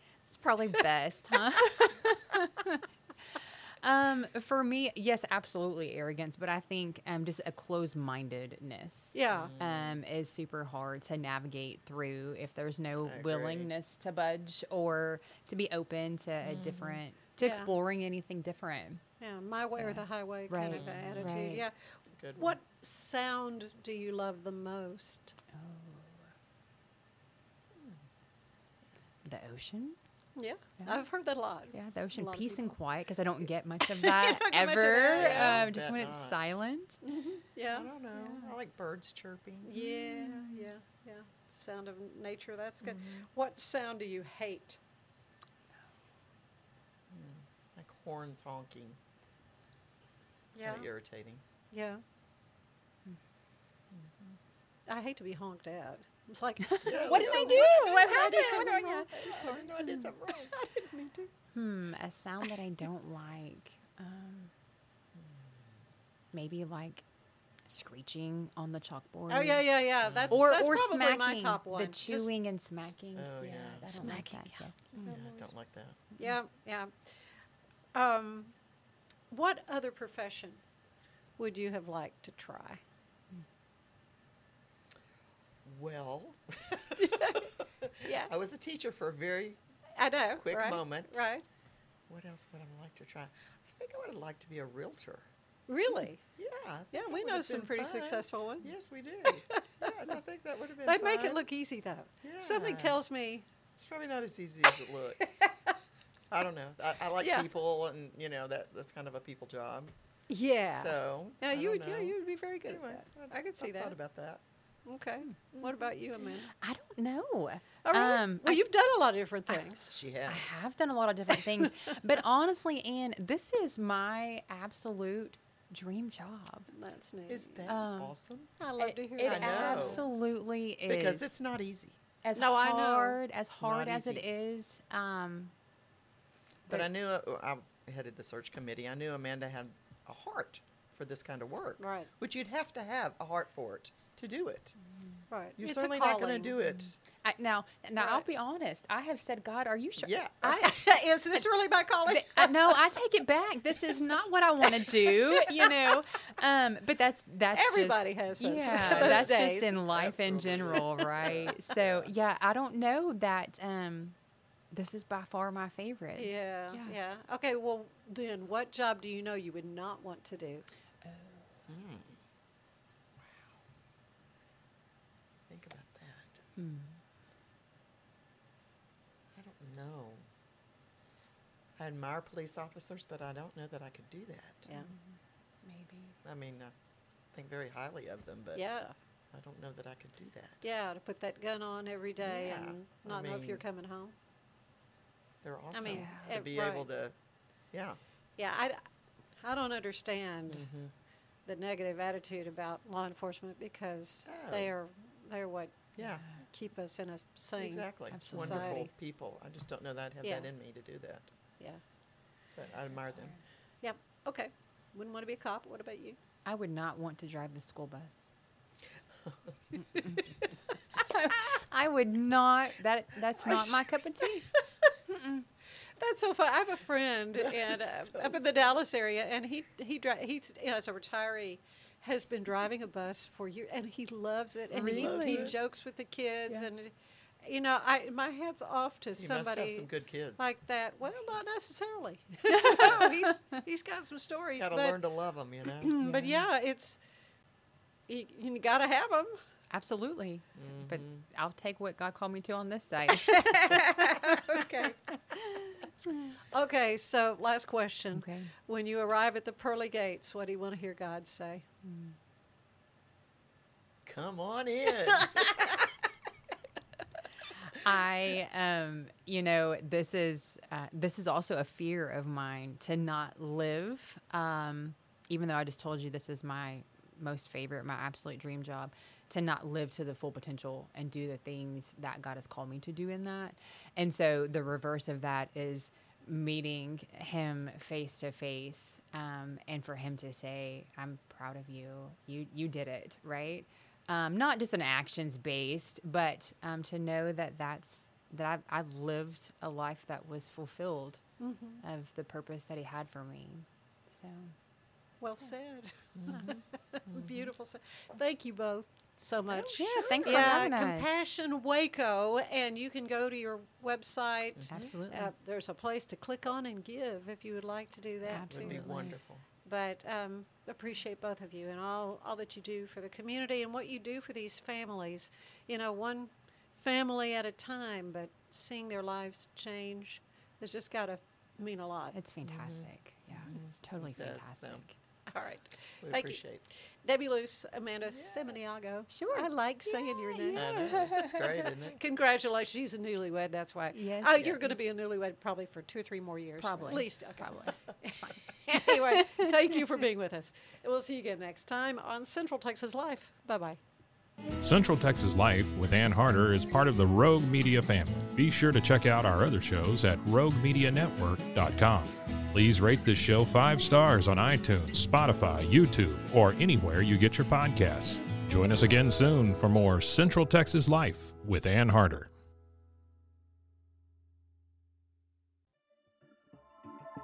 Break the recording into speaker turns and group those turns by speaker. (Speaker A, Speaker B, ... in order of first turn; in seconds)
Speaker A: 0.3-19.0, 19.8-21.6, 25.6-26.2, 29.2-30.0, 30.8-31.1, 31.7-37.0, 38.1-38.5, 39.8-40.7, 56.7-60.1, 61.5-64.5, 66.3-67.0, 67.7-69.7, 70.3-75.0, 116.5-118.7, 120.3-126.7, 127.7-128.2, 128.8-131.3, 132.2-135.5, 146.6-150.2, 152.1-164.2, 164.7-167.0, 171.1-171.4, 176.6-177.0, 184.7-186.2, 195.9-196.3, 206.0-206.4, 208.1-208.8, 213.0-213.4, 216.4-218.3, 219.8-220.3, 220.9-224.5, 225.1-225.5, 234.7-235.5, 242.7-242.9, 246.0-246.4, 249.7-254.3, 255.6-256.3, 258.1-258.5, 261.8-262.1, 267.7-301.3, 301.8-304.5, 309.8-311.1, 314.7-315.3, 318.3-319.2, 332.1-335.0, 339.1-341.7, 343.9-344.8, 346.6-349.2
Speaker B: 9.1-9.5, 17.4-17.7, 19.2-25.4, 30.4-32.7, 33.9-35.7, 37.0-37.9, 39.6-44.8, 50.5-50.9, 51.7-52.0, 54.9-59.8, 60.5-61.3, 69.3-72.3, 73.9-75.5, 76.2-77.1, 77.9-78.5, 79.3-80.6, 81.4-82.8, 87.0-87.5, 88.0-88.3, 90.0-91.4, 95.7-96.2, 96.9-98.7, 99.3-99.9, 100.8-103.5, 107.2-107.5, 110.3-114.0, 114.9-116.5, 117.8-119.9, 126.7-127.7, 128.6-130.0, 132.3-133.2, 141.8-142.1, 145.3-146.6, 148.0-148.2, 150.4-152.8, 154.8-156.0, 157.5-159.7, 166.2-170.7, 188.6-188.9, 190.6-194.2, 195.7-196.9, 198.4-198.8, 199.4-200.7, 201.4-208.9, 210.2-210.5, 213.8-216.2, 226.0-245.0, 245.8-247.0, 248.1-249.3, 253.1-255.1, 256.5-261.6, 301.4-301.8, 305.2-318.8, 319.6-332.2, 335.3-341.0, 341.9-353.8
Speaker C: 9.3-10.0, 13.0-13.7, 16.4-17.0, 20.7-21.4, 22.1-22.6, 35.1-36.6, 37.7-39.9, 42.8-43.2, 47.1-49.0, 50.6-51.4, 56.8-60.5, 65.2-65.7, 70.0-70.7, 73.2-74.3, 75.0-76.0, 85.6-89.6, 90.4-91.2, 92.1-95.3, 96.4-101.4, 102.2-103.0, 103.8-105.5, 106.3-109.9, 110.7-114.4, 115.5-115.8, 119.9-120.6, 127.3-128.5, 129.2-130.0, 130.9-132.0, 133.6-134.2, 136.7-144.8, 145.6-147.0, 150.0-150.8, 158.7-162.1, 171.7-172.2, 173.2-173.5, 175.5-176.4, 179.3-180.3, 181.8-184.8, 186.2-186.7, 187.3-188.7, 189.3-190.6, 192.2-193.6, 195.4-197.2, 197.7-198.0, 200.5-200.9, 204.3-204.7, 206.0-206.2, 207.6-211.3, 212.6-213.3, 227.4-228.4, 234.7-235.6, 239.2-240.5, 242.7-243.1, 244.6-246.0, 250.6-251.2, 264.1-265.9, 306.2-307.4, 309.5-310.6, 314.6-314.9, 318.5-319.4, 332.5-334.8, 336.0-336.6, 338.1-338.6, 340.5-342.0
Speaker D: 354.6-372.3